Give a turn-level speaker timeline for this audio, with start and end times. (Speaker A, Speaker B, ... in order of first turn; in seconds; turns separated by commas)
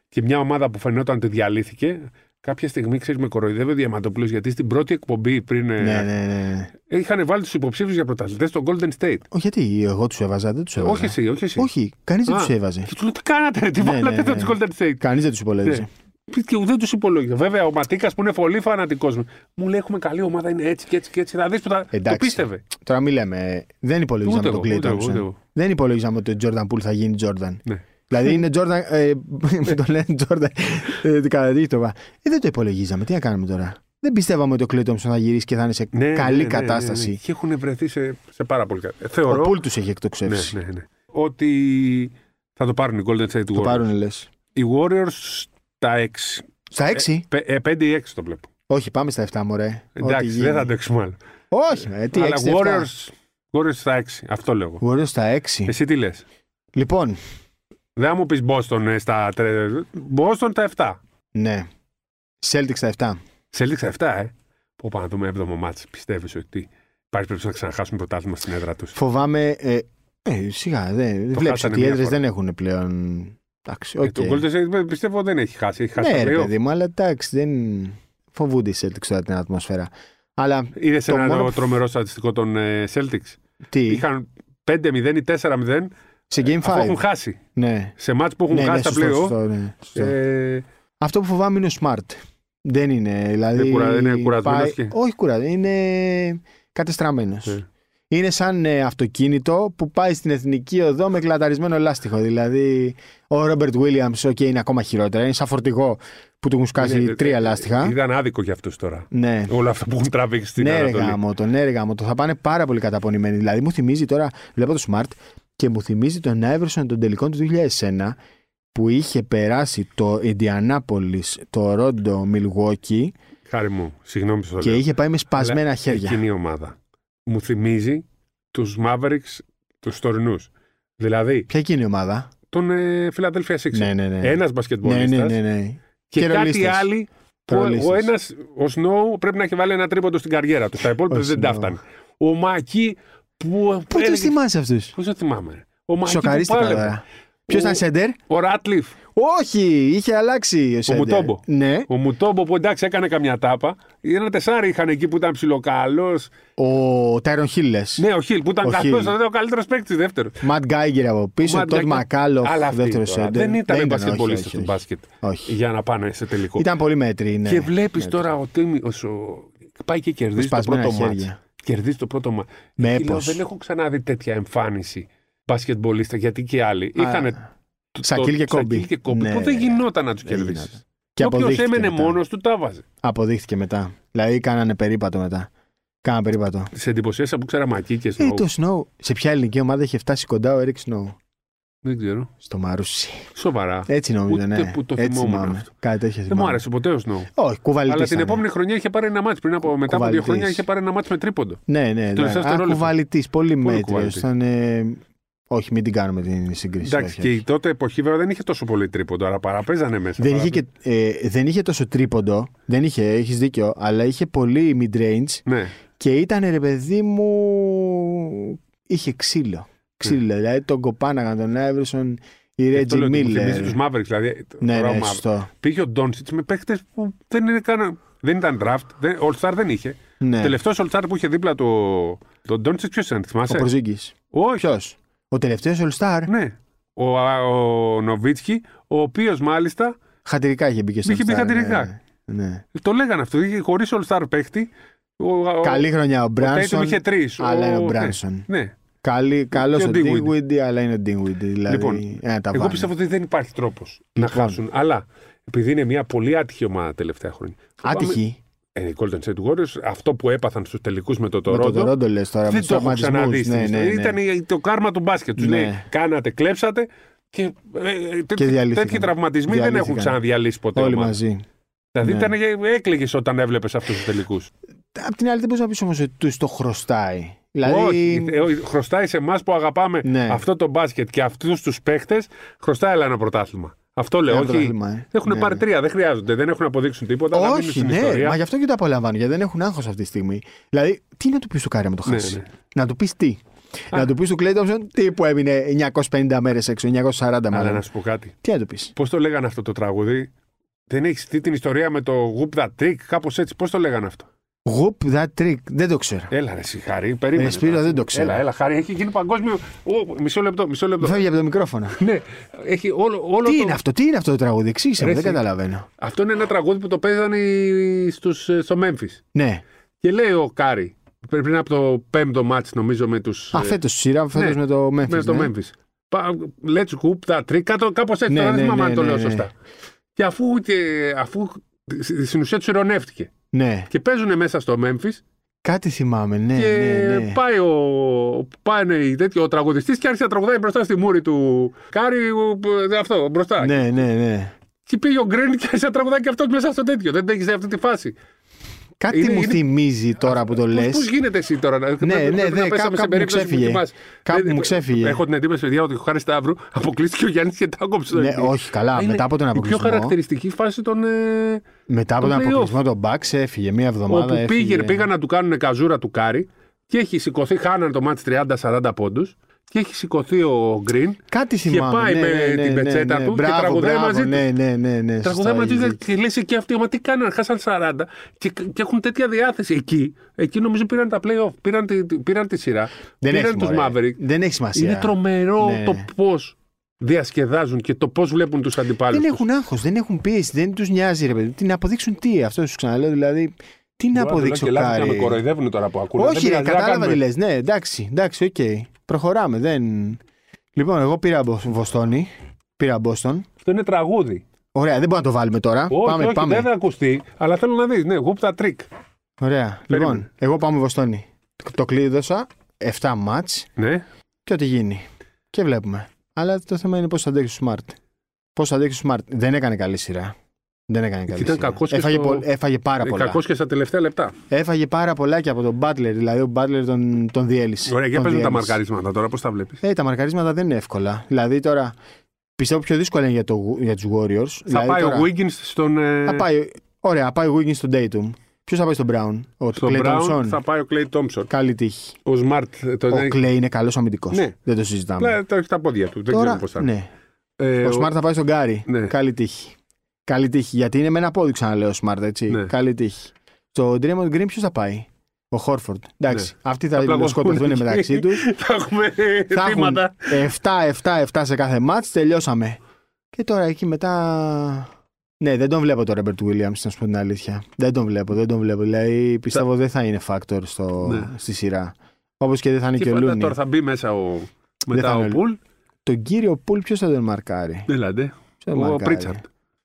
Speaker A: 0.1-6.1, Speaker B: 5.8-6.7, Speaker A: 6.9-9.2, Speaker B: 9.3-12.9, Speaker A: 10.8-11.7, Speaker A: 12.3-15.0, Speaker B: 13.8-15.9, Speaker A: 15.7-22.6, Speaker B: 21.9-37.2, Speaker A: 24.2-25.4, Speaker A: 35.9-39.6, Speaker B: 39.3-40.6, Speaker A: 40.3-43.9, Speaker B: 43.5-44.3, Speaker A: 44.5-48.5, Speaker B: 46.7-47.2, Speaker B: 48.7-50.7, Speaker A: 50.0-51.2, Speaker B: 51.5-52.9, Speaker A: 52.1-54.8, Speaker B: 54.8-55.7, Speaker A: 55.7-56.2, Speaker B: 56.7-57.2, Speaker A: 58.0-61.0, Speaker B: 61.4-61.7, Speaker B: 62.4-63.2, Speaker A: 63.5-69.0, Speaker B: 69.0-74.4, Speaker A: 71.3-72.2, Speaker A: 74.0-76.5, Speaker B: 76.0-81.7, Speaker A: 80.8-85.9, Speaker B: 83.7-84.1, Speaker B: 86.3-87.0, Speaker A: 86.5-87.4, Speaker B: 87.5-88.0, Speaker A: 88.0-89.4, Speaker B: 88.5-90.2, Speaker A: 90.0-90.6, Speaker B: 91.0-107.9, Speaker A: 93.5-95.0, Speaker A: 106.8-111.2, Speaker B: 109.1-109.5, Speaker B: 110.6-118.2, Speaker B: 118.7-123.2, Speaker A: 123.5-131.5, Speaker B: 124.6-126.2, Speaker B: 131.5-132.3, Speaker A: 132.5-135.4, Speaker B: 133.7-136.9, Speaker A: 136.1-144.4, Speaker B: 137.5-138.1, Speaker B: 141.1-141.8, Speaker B: 143.9-144.9, Speaker A: 144.9-147.0, Speaker B: 146.0-148.2, Speaker A: 147.5-149.0, Speaker B: 149.2-151.9, Speaker A: 150.9-156.3, Speaker B: 156.6-158.0, Speaker A: 158.0-160.4, Speaker B: 158.6-159.2, Speaker B: 160.4-165.5, Speaker A: 161.4-166.7, Speaker B: 166.6-168.3, Speaker A: 167.5-177.4, Speaker B: 170.4-171.4, Speaker B: 172.8-173.4, Speaker B: 177.0-177.4, Speaker A: 177.9-182.8, Speaker B: 178.0-182.2, Speaker B: 183.0-185.5, Speaker B: 186.0-186.7, Speaker A: 186.7-188.5, Speaker B: 188.2-191.2, Speaker A: 191.8-192.3, Speaker B: 192.4-193.3, Speaker A: 193.3-195.7, Speaker B: 193.9-196.6, Speaker A: 196.3-197.3, Speaker B: 197.4-198.4, Speaker A: 197.9-201.6, Speaker B: 199.8-200.7, Speaker B: 201.7-207.4, Speaker A: 202.2-202.9, Speaker A: 203.6-204.3, Speaker A: 206.8-210.6, Speaker B: 210.2-215.4, Speaker A: 215.5-215.8, Speaker B: 216.0-223.8, Speaker A: 222.7-233.7, Speaker B: 224.6-225.5, Speaker B: 230.2-230.6, Speaker B: 233.5-236.3, Speaker A: 234.3-234.7, Speaker A: 236.3-240.0, Speaker B: 240.2-242.6, Speaker A: 241.1-241.9, Speaker A: 242.7-245.9, Speaker B: 245.6-248.5, Speaker A: 246.4-248.8, Speaker B: 249.0-252.9, Speaker A: 249.5-250.3, Speaker A: 251.7-258.2, Speaker B: 254.2-254.6, Speaker B: 257.8-258.4, Speaker A: 258.8-261.9, Speaker B: 261.5-264.2, Speaker A: 262.5-271.2, Speaker B: 265.4-265.8, Speaker B: 268.4-270.2, Speaker B: 270.8-271.4, Speaker A: 271.9-274.5, Speaker B: 272.0-272.3, Speaker B: 274.9-278.5, Speaker A: 277.6-288.4, Speaker B: 280.0-280.4, Speaker B: 284.3-285.6, Speaker B: 287.3-297.8, Speaker A: 292.1-292.5, Speaker A: 297.5-298.3, Speaker B: 298.4-298.9, Speaker A: 298.9-300.3, Speaker A: 300.9-304.3, Speaker B: 304.6-306.3, Speaker A: 306.3-311.2, Speaker B: 307.4-308.4, Speaker B: 311.0-312.0, Speaker A: 312.0-313.8, Speaker B: 313.4-315.9, Speaker A: 315.0-315.4, Speaker A: 316.0-319.2, Speaker B: 319.3-319.6, Speaker A: 320.0-323.8, Speaker B: 323.5-325.5, Speaker A: 324.4-329.5, Speaker B: 328.3-329.5, Speaker A: 330.2-333.3, Speaker B: 333.5-333.9, Speaker A: 333.9-335.2, Speaker B: 335.6-337.4, Speaker A: 336.5-343.9, Speaker B: 343.6-344.5, Speaker A: 344.9-348.1, Speaker B: 349.0-351.1, Speaker A: 349.1-349.6, Speaker A: 350.2-361.6, Speaker B: 352.0-355.2, Speaker B: 358.1-360.2, Speaker B: 361.9-365.1, Speaker A: 362.2-362.8, Speaker A: 364.1-374.5, Speaker B: 371.3-376.0, Speaker A: 375.2-384.2, Speaker B: 383.2-386.1, Speaker A: 384.7-389.4, Speaker B: 389.1-395.4, Speaker A: 394.1-397.2, Speaker B: 396.2-400.2, Speaker B: 400.8-403.5, Speaker A: 403.6-404.4, Speaker B: 404.7-406.7, Speaker A: 405.9-408.9, Speaker B: 409.4-413.7, Speaker A: 409.9-410.3, Speaker A: 413.8-414.1, Speaker B: 414.5-418.0, Speaker B: 418.6-420.4, Speaker B: 420.9-423.4, Speaker A: 421.3-422.5, Speaker A: 423.0-424.4, Speaker B: 424.5-428.8, Speaker A: 427.9-429.8, Speaker B: 429.8-432.0, Speaker B: 432.6-435.3, Speaker A: 434.7-436.5, Speaker B: 436.2-440.6, Speaker A: 439.8-441.5, Speaker B: 441.5-442.2, Speaker A: 442.2-443.4, Speaker B: 443.1-445.4, Speaker A: 445.2-446.9, Speaker B: 446.3-447.1, Speaker A: 447.6-448.1, Speaker B: 447.8-449.8, Speaker A: 448.9-449.1, Speaker B: 450.3-458.4, Speaker A: 456.3-460.4, Speaker B: 459.5-462.8, Speaker B: 463.3-473.6, Speaker A: 471.1-471.3, Speaker A: 473.0-475.6, Speaker B: 474.9-475.4, Speaker B: 476.1-477.9, Speaker A: 477.9-479.4, Speaker B: 478.6-479.4